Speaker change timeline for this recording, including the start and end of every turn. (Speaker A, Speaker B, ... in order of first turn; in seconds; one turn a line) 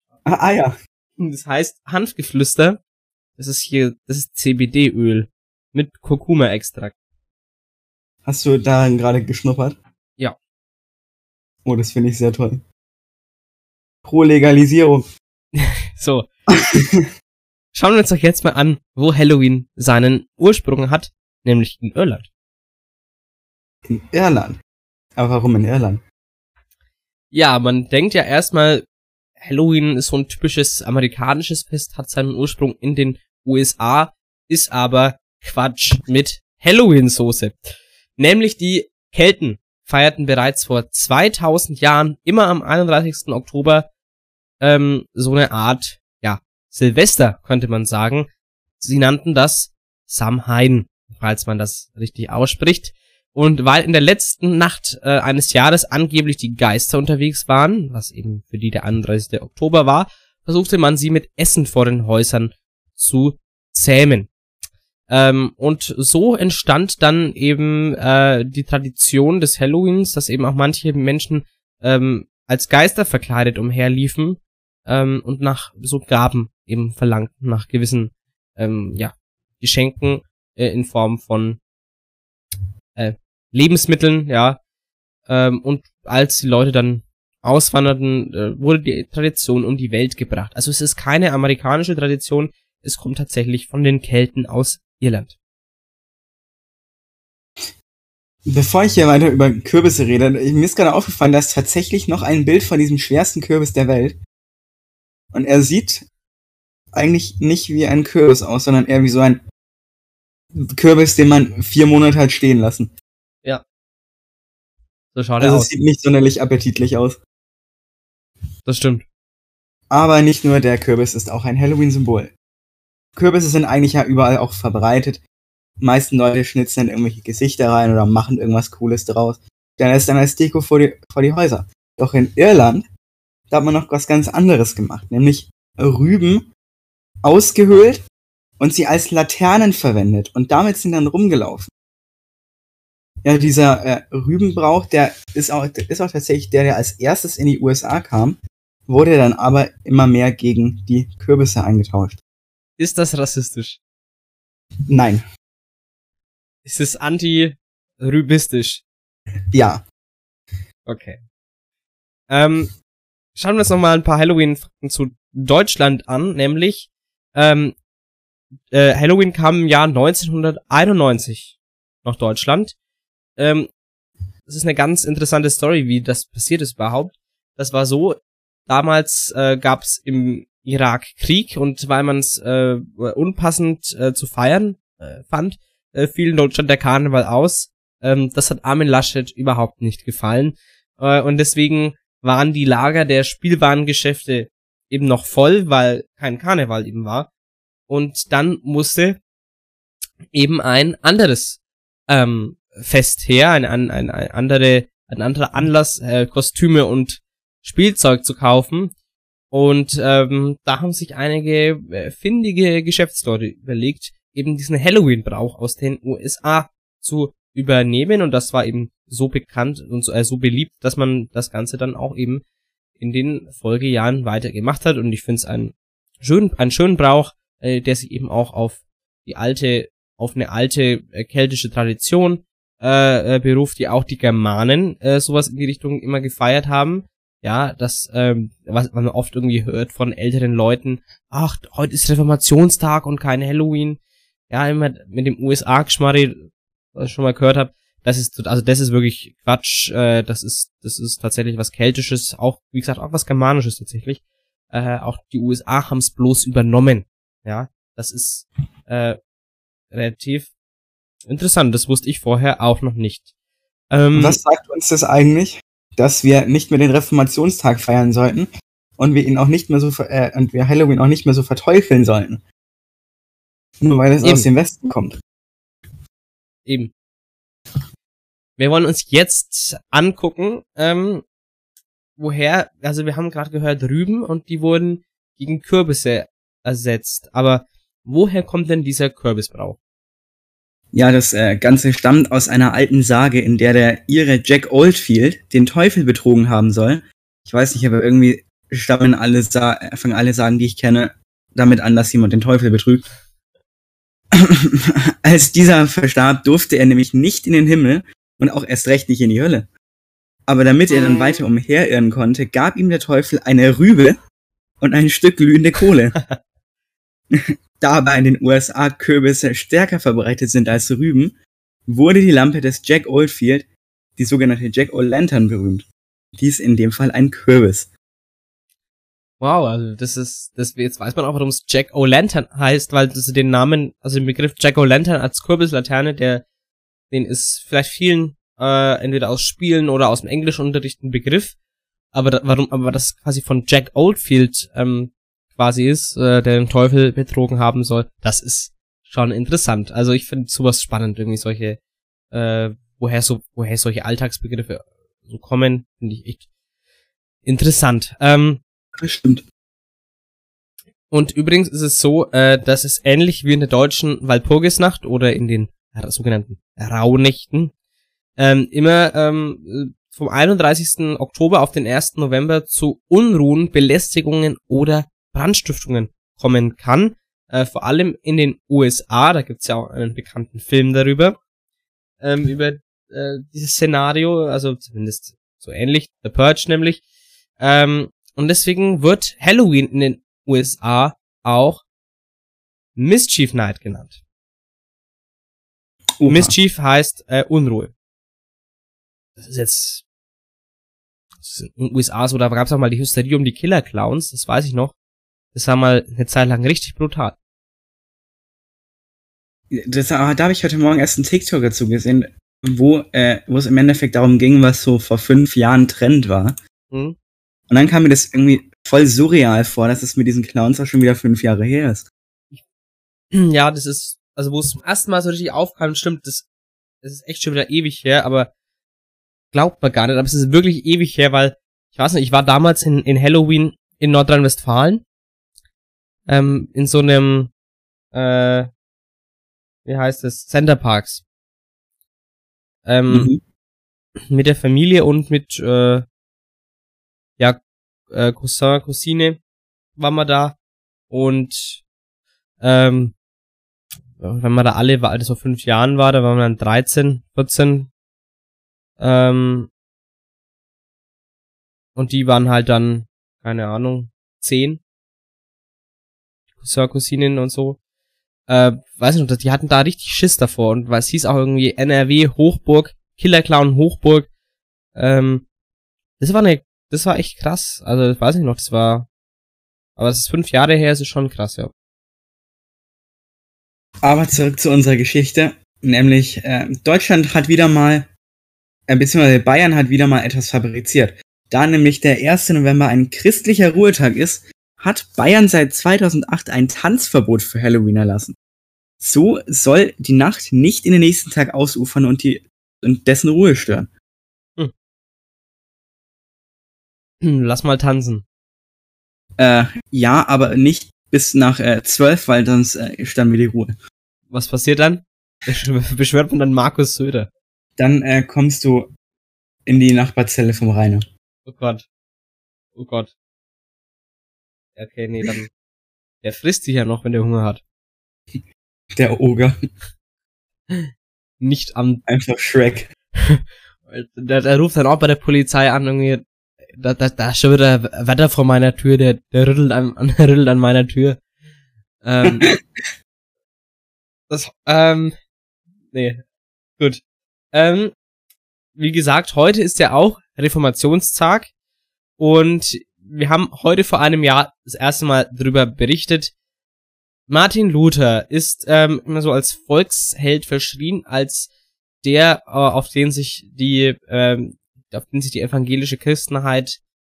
Speaker A: 0.2-0.8
Speaker B: 1.2-2.8
Speaker B: 3.4-6.9
Speaker A: 8.2-9.8
Speaker A: 11.6-12.6
Speaker A: 14.1-15.1
Speaker B: 15.6-16.3
Speaker A: 16.5-17.1
Speaker B: 17.7-22.3
Speaker A: 23.9-24.6
Speaker A: 25.1-26.0
Speaker B: 27.3-28.8
Speaker B: 29.4-43.9
Speaker B: 44.6-48.3
Speaker B: 48.8-64.3
Speaker B: 65.1-81.6
Speaker B: 83.0-84.6
Speaker B: 85.3-95.3
Speaker A: 98.5-104.2
Speaker A: 105.3-106.0
Speaker A: 106.9-109.4
Speaker A: 110.5-112.9
Speaker B: 115.1-115.7
Speaker A: 115.4-117.2
Speaker B: 118.7-119.0
Speaker A: 119.9-122.3
Speaker A: 123.2-125.2
Speaker A: 125.8-132.9
Speaker A: 133.5-136.5
Speaker A: 137.2-138.0
Speaker A: 138.6-141.7
Speaker A: 143.2-152.2
Speaker B: 152.8-153.8
Speaker A: 154.8-155.2
Speaker B: 156.6-158.8
Speaker A: 159.5-159.8
Speaker B: 160.8-161.2
Speaker B: 162.3-162.7
Speaker B: 163.3-167.8
Speaker B: 168.7-172.7
Speaker B: 173.4-173.7
Speaker B: 174.5-197.3
Speaker B: 197.9-199.2
Speaker B: 200.3-208.9
Speaker B: 209.5-222.4
Speaker B: 223.0-244.0
Speaker B: 244.5-246.4
Speaker B: 246.9-259.2
Speaker B: 259.9-260.5
Speaker B: 261.3-263.3
Speaker B: 263.9-264.4
Speaker A: 264.1-272.4
Speaker A: 273.8-275.2
Speaker B: 274.2-274.5
Speaker B: 276.6-276.9
Speaker B: 278.6-281.2
Speaker B: 282.2-289.8
Speaker A: 290.9-303.1
Speaker A: 304.3-309.7
Speaker A: 310.5-314.2
Speaker B: 310.9-311.4
Speaker A: 314.8-316.2
Speaker A: 317.3-321.3
Speaker A: 321.9-325.9
Speaker A: 326.4-327.9
Speaker B: 329.4-336.4
Speaker B: 337.1-341.5
Speaker B: 342.1-351.8
Speaker B: 352.3-356.4
Speaker B: 357.4-358.6
Speaker A: 358.9-359.4
Speaker B: 361.1-367.7
Speaker B: 368.4-381.4
Speaker B: 382.2-387.0
Speaker B: 387.6-391.8
Speaker B: 392.9-394.1
Speaker A: 396.2-396.5
Speaker B: 396.3-397.9
Speaker B: 399.4-400.0
Speaker B: 401.4-404.9
Speaker B: 405.5-407.4
Speaker A: 409.7-416.6
Speaker B: 416.9-417.1
Speaker A: 417.7-422.1
Speaker B: 423.3-426.4
Speaker B: 427.0-428.5
Speaker B: 429.5-435.0
Speaker B: 436.3-437.5
Speaker B: 438.1-438.7
Speaker B: 439.9-441.2
Speaker B: 442.9-443.3
Speaker A: 443.1-443.4
Speaker B: 444.3-446.1
Speaker B: 447.4-449.4
Speaker B: 450.0-450.6
Speaker B: 451.1-451.8
Speaker B: 452.6-453.1
Speaker B: 454.2-457.9
Speaker B: 459.0-459.7
Speaker B: 461.9-464.8
Speaker B: 466.6-467.8
Speaker B: 468.5-474.3
Speaker B: 474.9-475.4
Speaker B: 476.2-479.1
Speaker B: 480.0-481.7
Speaker A: 484.0-488.1
Speaker A: 488.9-498.4
Speaker A: 499.0-503.9
Speaker B: 507.2-508.2
Speaker A: 509.4-513.8
Speaker B: 514.3-517.3
Speaker A: 517.8-518.9
Speaker A: 519.6-521.1
Speaker B: 521.5-521.9
Speaker B: 522.8-523.1
Speaker B: 524.8-525.5
Speaker B: 526.2-527.6
Speaker A: 528.3-529.7
Speaker B: 531.4-532.0
Speaker A: 532.1-532.9
Speaker B: 533.2-536.2
Speaker B: 536.8-541.2
Speaker B: 542.0-542.5
Speaker A: 542.2-542.6
Speaker B: 544.3-545.1
Speaker B: 545.9-546.2
Speaker B: 547.5-547.9
Speaker B: 548.8-551.5
Speaker B: 552.2-556.3
Speaker B: 557.3-561.5
Speaker B: 562.0-566.8